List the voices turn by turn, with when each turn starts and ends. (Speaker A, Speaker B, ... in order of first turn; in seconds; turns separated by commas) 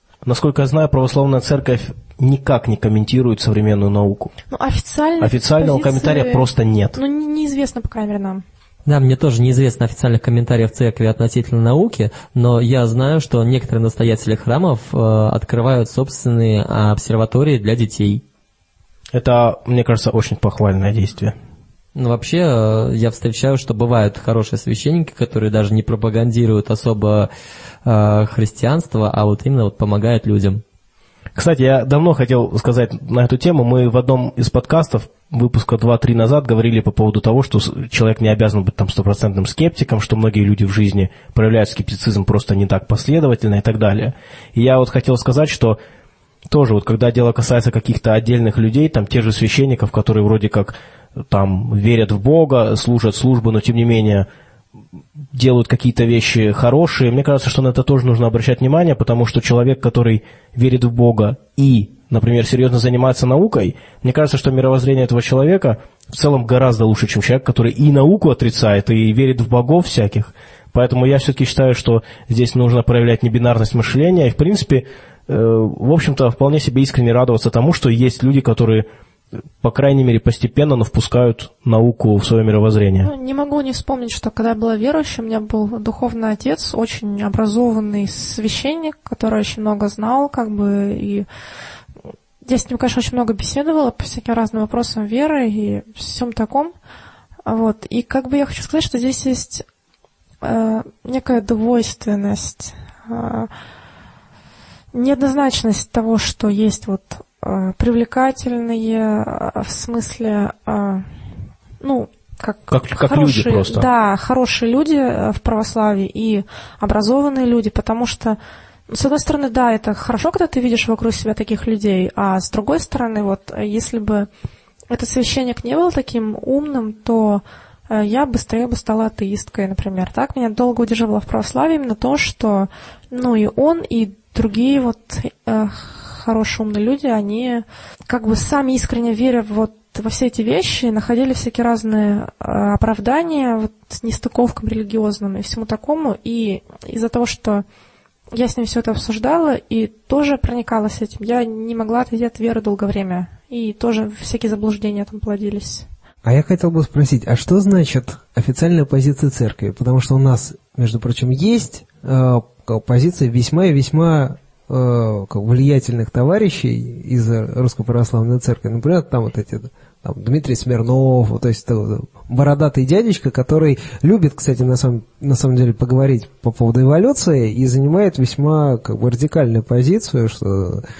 Speaker A: 0.2-4.3, Speaker B: 4.5-8.4, Speaker A: 5.2-7.0, Speaker C: 8.8-18.2, Speaker A: 19.1-21.3, Speaker C: 21.9-27.3, Speaker C: 27.8-30.6, Speaker A: 31.4-45.8, Speaker A: 46.5-50.8, Speaker A: 51.3-54.3, Speaker A: 55.3-78.8, Speaker A: 79.6-83.1, Speaker B: 83.0-91.3, Speaker B: 92.4-96.7, Speaker B: 97.4-99.7, Speaker B: 100.4-103.5, Speaker B: 104.9-111.1, Speaker B: 111.8-124.3, Speaker A: 112.7-113.9, Speaker B: 124.9-147.6, Speaker B: 148.3-155.9, Speaker D: 156.2-180.8